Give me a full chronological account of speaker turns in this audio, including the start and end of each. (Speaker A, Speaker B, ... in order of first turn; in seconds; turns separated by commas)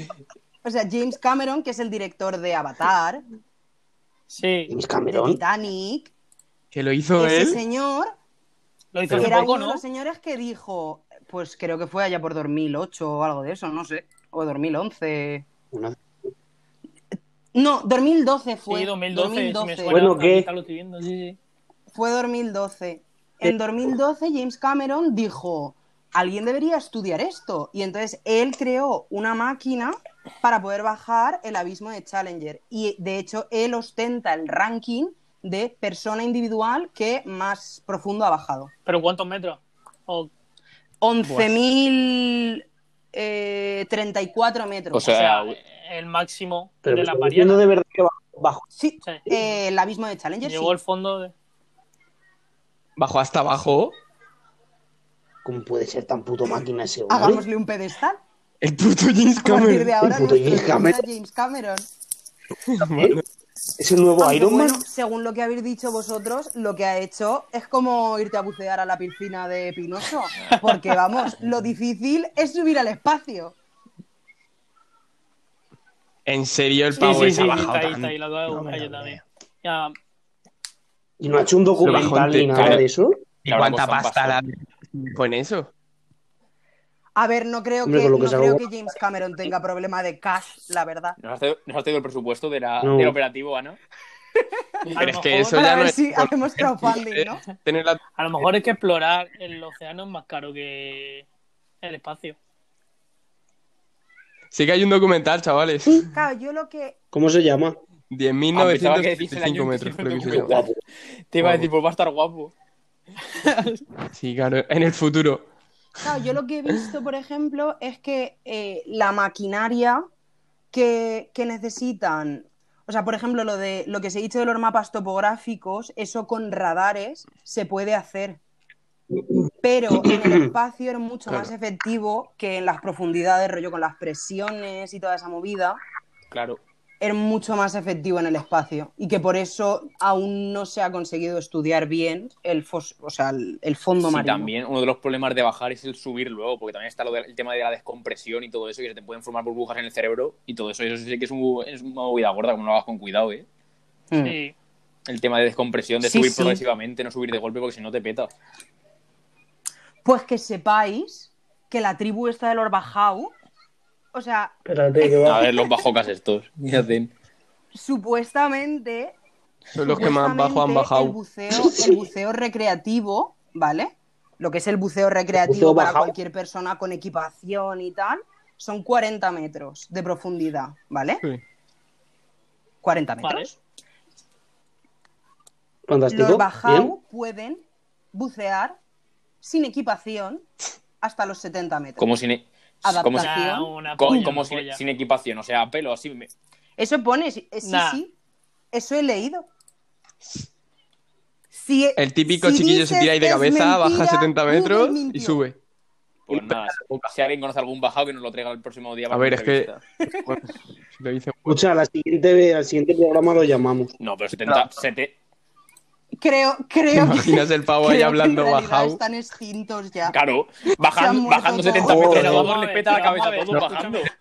Speaker A: 0.6-3.2, Speaker B: 4.3-4.7, Speaker C: 4.7-5.4, Speaker A: 5.1-6.1, Speaker D: 6.7-7.6, Speaker A: 7.2-8.1, Speaker B: 8.9-9.8, Speaker C: 9.1-9.4, Speaker A: 9.1-15.5, Speaker C: 15.7-16.0, Speaker A: 17.5-20.0, Speaker B: 18.7-21.4, Speaker C: 19.9-20.5, Speaker A: 21.9-38.7, Speaker B: 38.9-40.3, Speaker A: 41.0-45.1, Speaker E: 44.9-45.6, Speaker B: 45.1-47.6, Speaker C: 46.9-48.6, Speaker A: 48.8-50.8, Speaker B: 50.4-51.3, Speaker D: 53.0-54.0, Speaker C: 55.5-57.5, Speaker A: 57.1-58.2, Speaker D: 58.6-60.0, Speaker A: 59.3-61.9, Speaker C: 60.0-61.0, Speaker D: 62.7-63.2, Speaker C: 62.8-63.2, Speaker C: 63.8-64.8, Speaker A: 64.2-73.5, Speaker D: 76.3-78.2, Speaker B: 77.0-80.0, Speaker C: 78.5-79.2, Speaker C: 81.2-83.2, Speaker D: 81.8-82.8, Speaker E: 81.8-82.8, Speaker D: 83.5-85.7, Speaker E: 83.5-84.4, Speaker A: 87.2-91.2, Speaker C: 87.8-88.7, Speaker E: 91.2-93.8, Speaker C: 92.8-93.2, Speaker B: 95.0-95.6, Speaker D: 95.0-98.0, Speaker A: 95.5-97.4, Speaker B: 98.2-101.3, Speaker B: 101.8-102.4, Speaker D: 104.5-106.1, Speaker A: 105.9-107.0, Speaker C: 107.1-107.8, Speaker D: 108.1-110.7, Speaker E: 108.5-110.7, Speaker C: 110.3-110.8, Speaker E: 111.3-112.5, Speaker D: 111.4-111.7, Speaker D: 114.1-115.5, Speaker A: 116.0-120.0, Speaker A: 120.7-128.4, Speaker A: 129.6-135.8, Speaker C: 129.9-130.4, Speaker E: 136.3-136.6, Speaker A: 137.0-144.5, Speaker E: 144.1-153.5, Speaker A: 154.1-154.4, Speaker B: 154.2-154.6, Speaker E: 155.1-158.3, Speaker A: 156.0-156.6, Speaker A: 160.0-163.3, Speaker A: 164.1-165.2, Speaker C: 164.7-165.5, Speaker E: 165.2-167.1, Speaker A: 167.7-169.2, Speaker D: 169.7-171.2, Speaker A: 169.9-181.2, Speaker C: 175.3-176.2, Speaker A: 182.8-183.6, Speaker C: 185.9-186.9, Speaker A: 186.1-188.8, Speaker A: 189.4-190.5, Speaker A: 191.0-192.0, Speaker E: 192.0-193.3, Speaker A: 192.8-193.7, Speaker B: 193.2-194.8, Speaker E: 194.0-196.3, Speaker A: 196.8-198.1, Speaker B: 197.6-198.0, Speaker A: 198.7-199.5, Speaker A: 201.5-205.4, Speaker D: 202.0-205.6, Speaker E: 206.3-209.8, Speaker D: 206.3-207.1, Speaker D: 209.1-209.7, Speaker D: 210.2-211.6, Speaker C: 211.5-213.9, Speaker E: 214.0-215.2, Speaker A: 216.2-220.2, Speaker D: 216.9-219.0, Speaker E: 220.1-224.1, Speaker A: 220.9-222.3, Speaker C: 221.8-222.5, Speaker B: 222.1-224.1